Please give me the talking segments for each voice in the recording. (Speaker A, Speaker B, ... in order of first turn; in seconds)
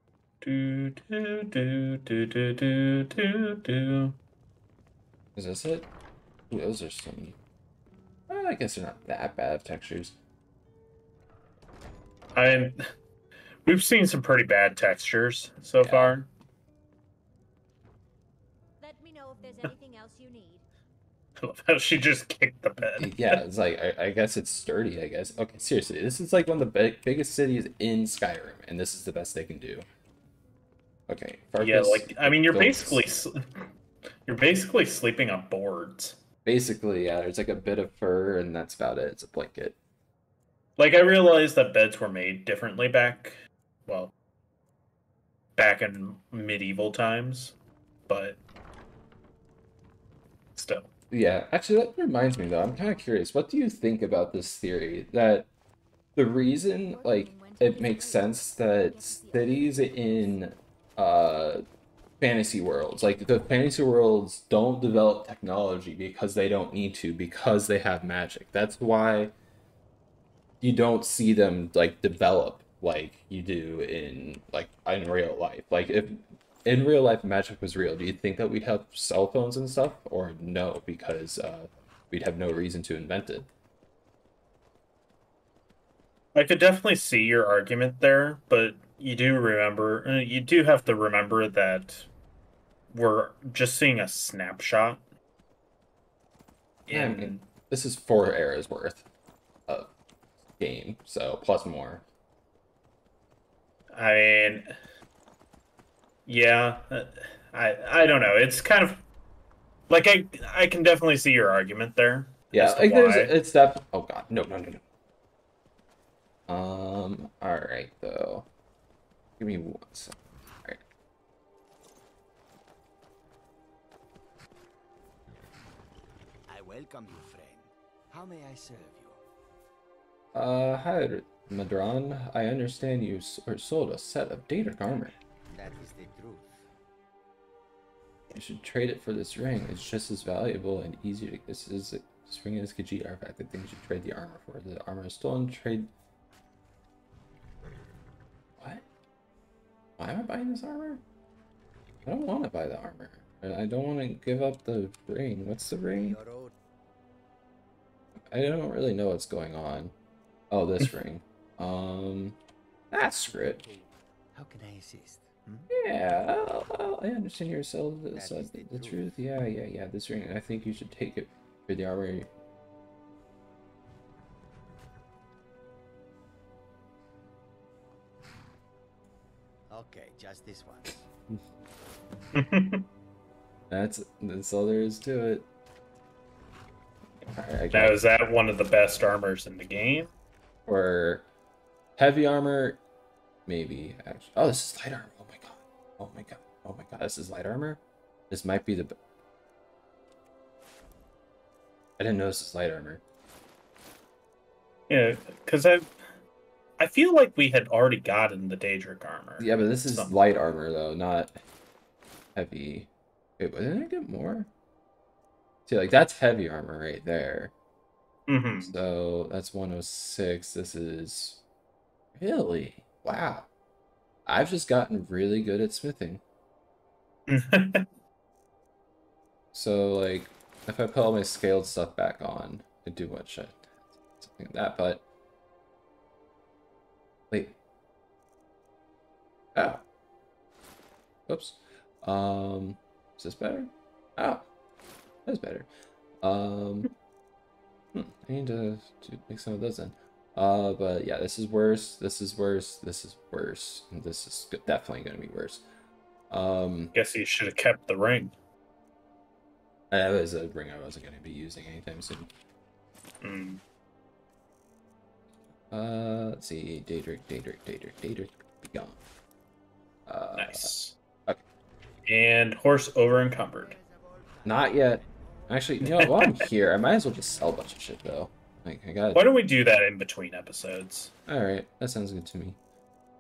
Speaker A: 0.4-4.2, 12.3-12.8, 13.7-16.3, 21.4-23.4, 31.6-33.7, 34.3-36.2, 40.8-44.1, 45.6-47.6, 48.1-48.4, 50.6-50.9, 86.3-92.1, 92.9-95.0, 96.9-97.5, 103.9-104.8, 106.3-109.0, 109.9-113.3, 182.3-182.9, 187.7-190.1, 204.9-205.9, 206.8-210.1, 218.3-218.7, 227.3-227.9, 256.9-258.3, 263.2-263.6, 270.4-271.0, 272.1-273.8, 275.8-276.5, 279.1-281.1
Speaker B: 5.4-5.9, 6.5-7.4, 8.3-10.2, 15.8-16.2, 22.8-29.9, 31.1-33.2, 36.5-39.8, 51.1-55.5, 56.2-61.6, 62.2-69.3, 70.6-83.5, 96.9-99.1, 99.7-99.9, 100.6-102.0, 112.5-114.8, 116.5-118.5, 119.4-120.8, 130.3-135.2, 138.3-145.9, 148.6-148.8, 150.0-151.0, 152.1-156.2, 158.3-159.9, 160.5-162.4, 162.9-163.6, 165.7-172.3, 183.7-185.5, 187.3-188.0, 190.7-191.2, 192.0-192.8, 193.5-199.0, 202.0-203.0, 209.4-211.4, 212.3-214.5, 215.7-217.5, 218.6-221.4, 222.2-223.5, 224.3-226.2, 229.5-235.0, 237.3-237.6, 239.6-239.8, 241.3-244.5, 245.3-245.7, 246.2-246.9, 247.9-255.6, 256.3-256.9, 259.9-262.3, 265.7-269.0, 270.1-270.7, 274.4-279.2, 281.3-282.6
Speaker C: 18.8-20.6, 56.9-58.2, 58.9-59.7
Speaker D: 126.5-129.2, 135.5-136.5, 155.9-156.6, 163.2-165.7, 168.1-169.1, 179.7-181.0, 273.3-275.8